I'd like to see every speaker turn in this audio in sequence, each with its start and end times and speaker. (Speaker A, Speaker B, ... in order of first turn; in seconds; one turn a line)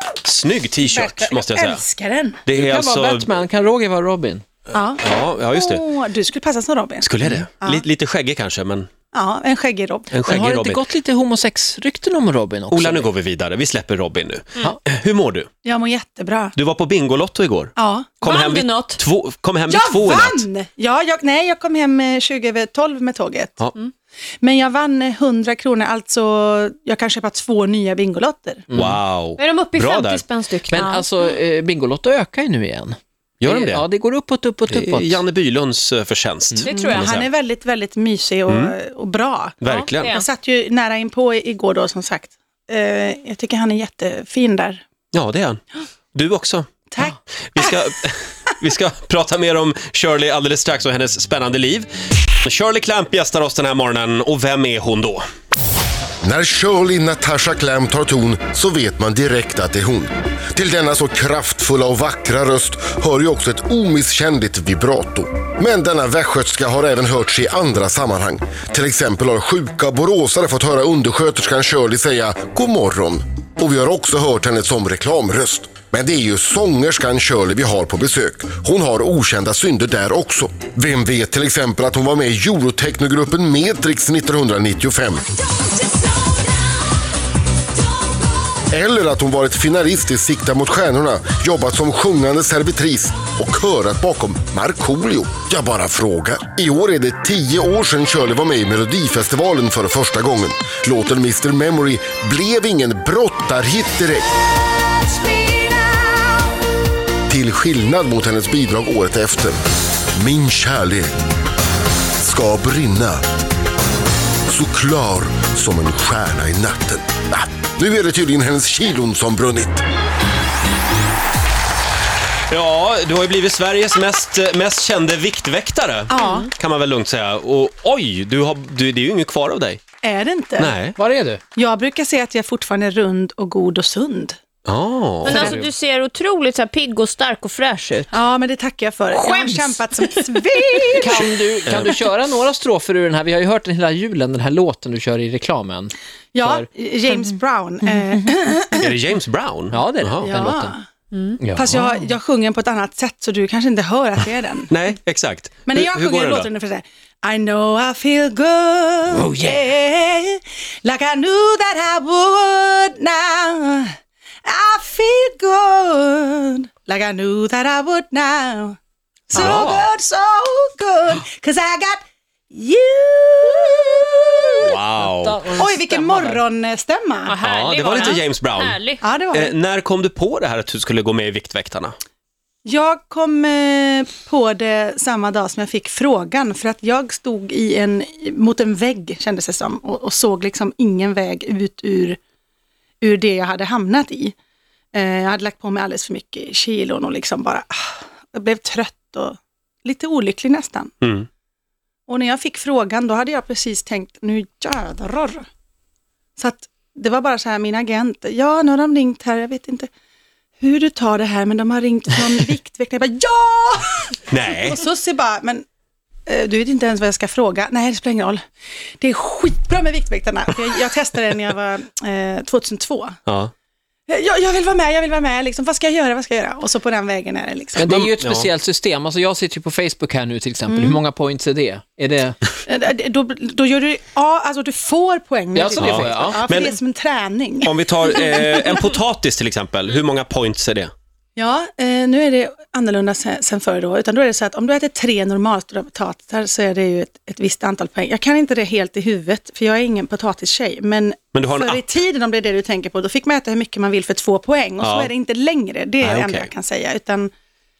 Speaker A: 0.2-1.8
Speaker B: 0.8-2.4
Speaker A: 2.4-3.3
Speaker C: 2.5-4.4
Speaker B: 4.7-7.8
Speaker A: 5.0-5.8
Speaker A: 7.0-8.9
Speaker B: 9.1-10.1
Speaker A: 10.1-10.8
Speaker C: 10.2-13.1
Speaker A: 12.7-15.5
Speaker B: 15.6-16.5
Speaker A: 16.5-20.4
Speaker B: 17.8-18.1
Speaker D: 18.2-19.0
Speaker B: 19.7-23.6
Speaker B: 24.4-28.6
Speaker C: 28.7-29.0
Speaker A: 28.7-30.2
Speaker D: 29.4-31.1
Speaker C: 30.7-35.2
Speaker A: 33.4-33.8
Speaker A: 34.7-37.3
Speaker D: 36.6-37.1
Speaker B: 36.7-44.8
Speaker A: 38.5-38.7
Speaker A: 39.6-40.1
Speaker D: 39.6-40.2
Speaker A: 45.1-45.6
Speaker A: 46.1-51.9
Speaker B: 46.9-47.8
Speaker A: 52.4-55.2
Speaker E: 56.2-85.2
Speaker E: 88.7-104.3
Speaker E: 107.3-109.6
Speaker E: 110.1-111.1
Speaker E: 112.2-113.2
Speaker E: 114.5-119.8
Speaker A: 122.5-129.8
Speaker B: 126.1-126.5
Speaker D: 126.1-126.5
Speaker B: 130.0-130.7
Speaker A: 130.6-131.0
Speaker C: 130.9-131.4
Speaker B: 131.6-134.3
Speaker A: 134.7-135.6
Speaker C: 135.2-135.7
Speaker D: 135.2-138.2
Speaker B: 138.1-141.3
Speaker D: 139.1-140.2
Speaker C: 140.9-146.7
Speaker A: 141.7-141.9
Speaker B: 146.3-149.0
Speaker A: 148.8-150.3
Speaker C: 149.7-150.7
Speaker B: 150.2-150.8
Speaker D: 151.1-151.4
Speaker C: 151.4-152.1
Speaker B: 151.5-154.7
Speaker A: 154.7-156.5
Speaker B: 155.7-168.8
Speaker C: 159.1-159.7
Speaker B: 169.3-174.7
Speaker A: 169.3-169.8
Speaker A: 174.6-175.5
Speaker C: 174.9-176.4
Speaker B: 175.6-177.3
Speaker D: 177.2-179.0
Speaker A: 177.4-181.9
Speaker B: 179.0-179.5
Speaker B: 182.6-192.2
Speaker B: 193.0-194.3
Speaker B: 194.9-200.9
Speaker A: 201.0-201.3
Speaker B: 202.1-205.4
Speaker B: 206.4-209.9
Speaker B: 210.6-215.6
Speaker A: 214.3-214.8
Speaker B: 216.3-218.4
Speaker B: 219.0-223.2
Speaker A: 223.2-223.5
Speaker B: 224.1-227.8
Speaker C: 227.8-232.4
Speaker A: 227.8-228.5
Speaker B: 230.7-231.0
Speaker B: 232.7-238.8
Speaker C: 235.5-236.4
Speaker A: 235.7-236.7
Speaker A: 237.6-240.9
Speaker B: 241.3-257.3
Speaker A: 251.3-251.8
Speaker A: 254.8-255.1
Speaker A: 256.0-256.5